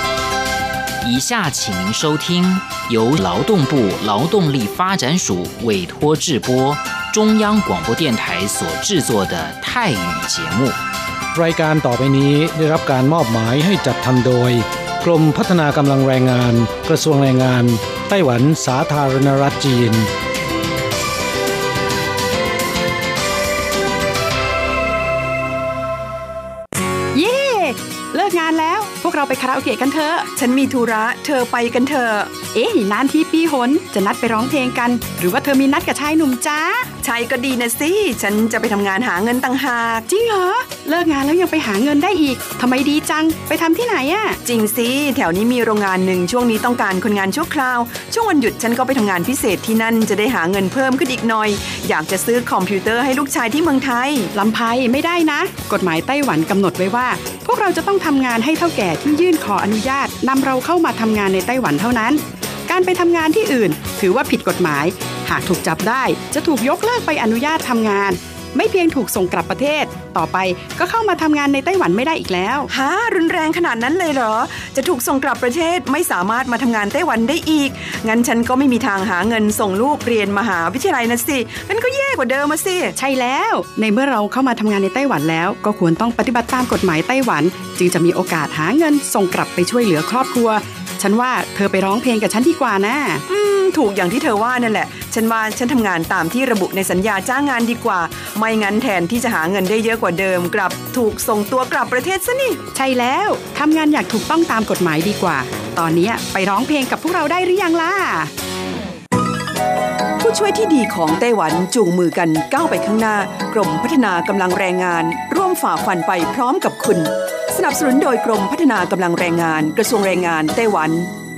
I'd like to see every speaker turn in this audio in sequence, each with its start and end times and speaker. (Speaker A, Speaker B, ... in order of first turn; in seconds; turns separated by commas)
Speaker A: 1.0-10.8, Speaker B: 11.3-20.1, Speaker C: 27.1-30.3, Speaker D: 30.4-32.4, Speaker C: 32.5-36.9, Speaker D: 37.0-40.1, Speaker C: 40.1-44.4, Speaker D: 44.4-54.3, Speaker C: 54.3-72.7, Speaker D: 72.7-82.9, Speaker C: 83.0-93.2, Speaker D: 93.3-102.6, Speaker C: 102.7-108.3, Speaker D: 110.2-121.1